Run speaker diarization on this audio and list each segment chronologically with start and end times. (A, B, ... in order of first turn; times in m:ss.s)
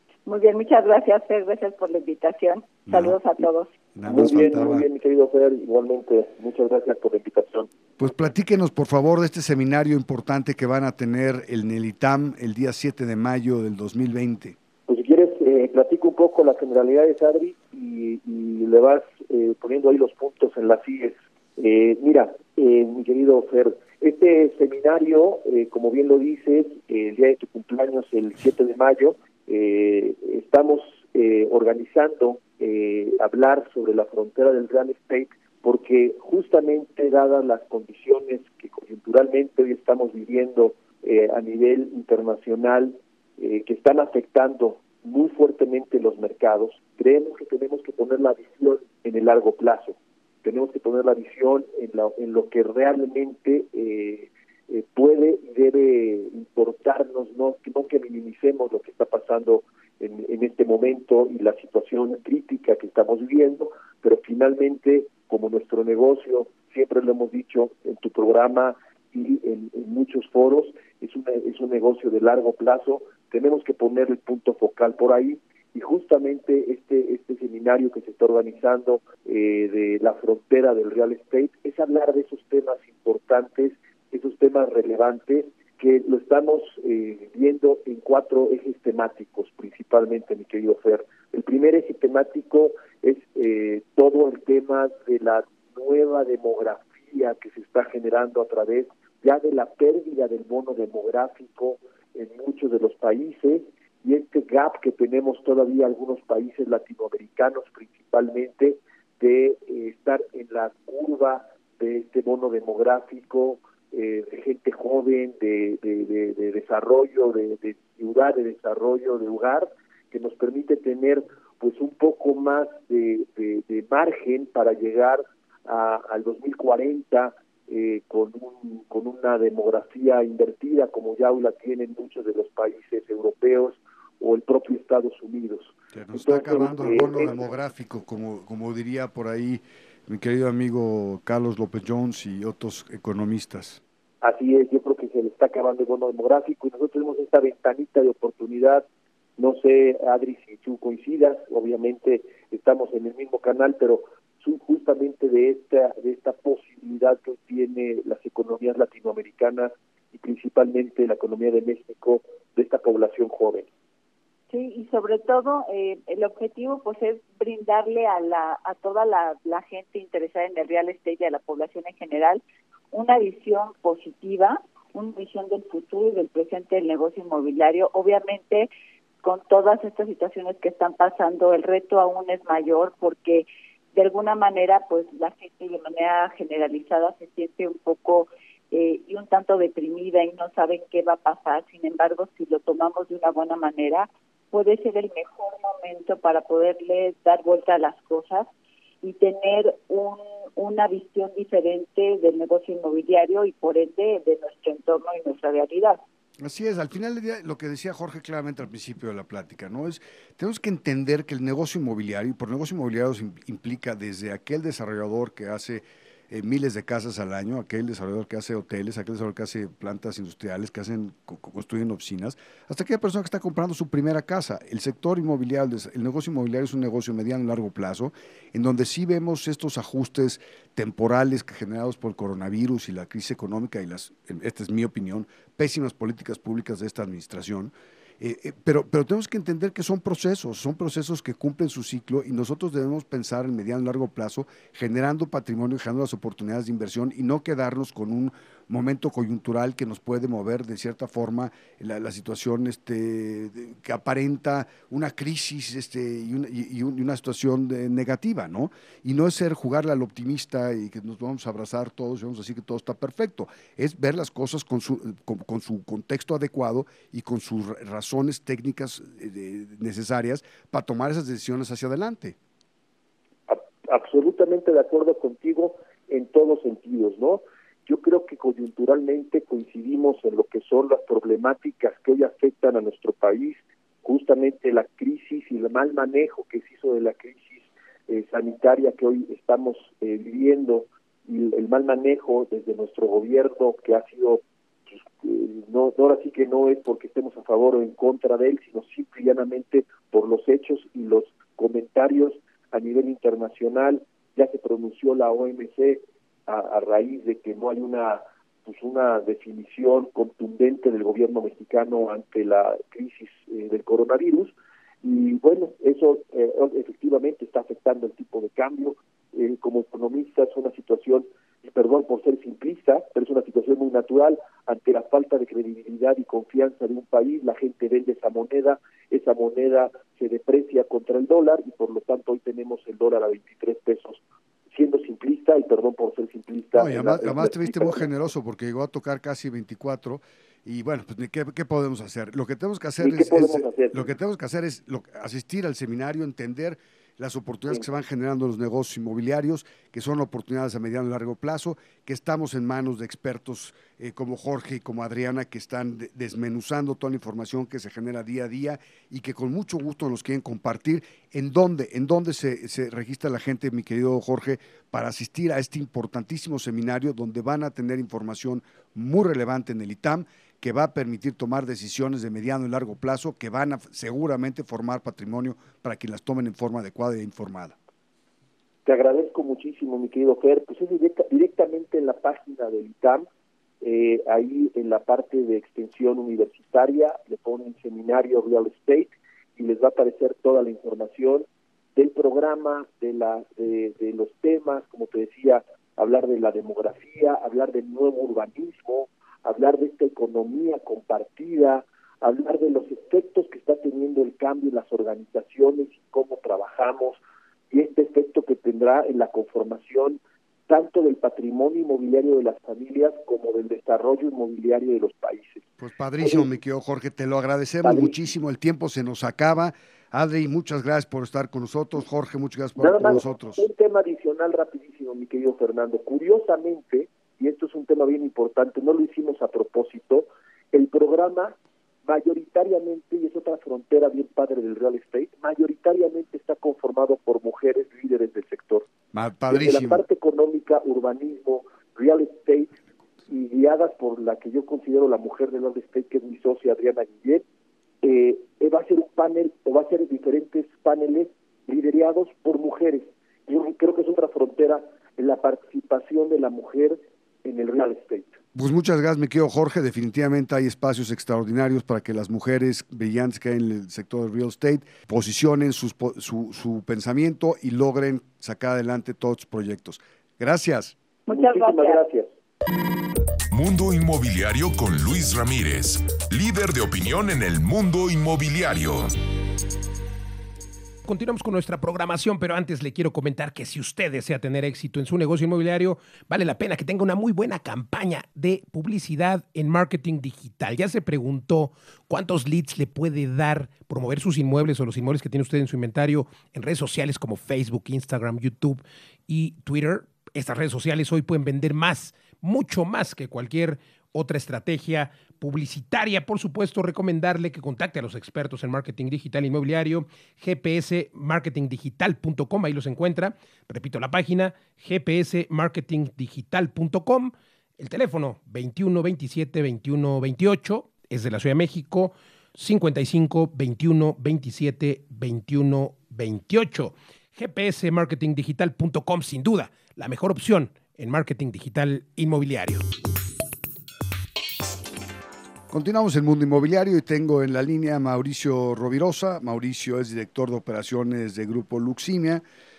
0:00.2-0:03.7 A
0:02.9-0:03.2 B
0:04.0-0:04.9 B
0:04.1-0:07.7 C
0:08.0-0:14.6 B
0:14.9-2:17.4 C
2:15.9-2:23.8 B
2:24.2-2:28.9 C
2:29.4-2:43.7 C
2:44.5-2:58.7 A
2:59.2-3:18.5 A
3:19.0-3:26.0 A
3:26.4-4:32.4 B
4:33.5-5:34.2 C
5:34.7-5:38.0 C
5:36.8-6:17.8 B
5:43.0-5:44.1 C
6:18.8-6:23.3 C
6:23.8-6:47.2 C
6:47.7-6:55.6 C
6:55.8-7:03.7 B
6:57.8-6:58.1 C
7:02.8-7:18.9 C
7:19.1-7:20.0 B
7:19.5-7:22.7 C
7:23.3-7:27.4 C
7:28.0-7:38.4 C
7:38.6-7:50.9 B
7:51.3-7:52.0 A
7:51.3-7:52.3 C
7:53.5-7:59.1 D
8:01.0-8:52.8 E
8:55.7-9:02.4 B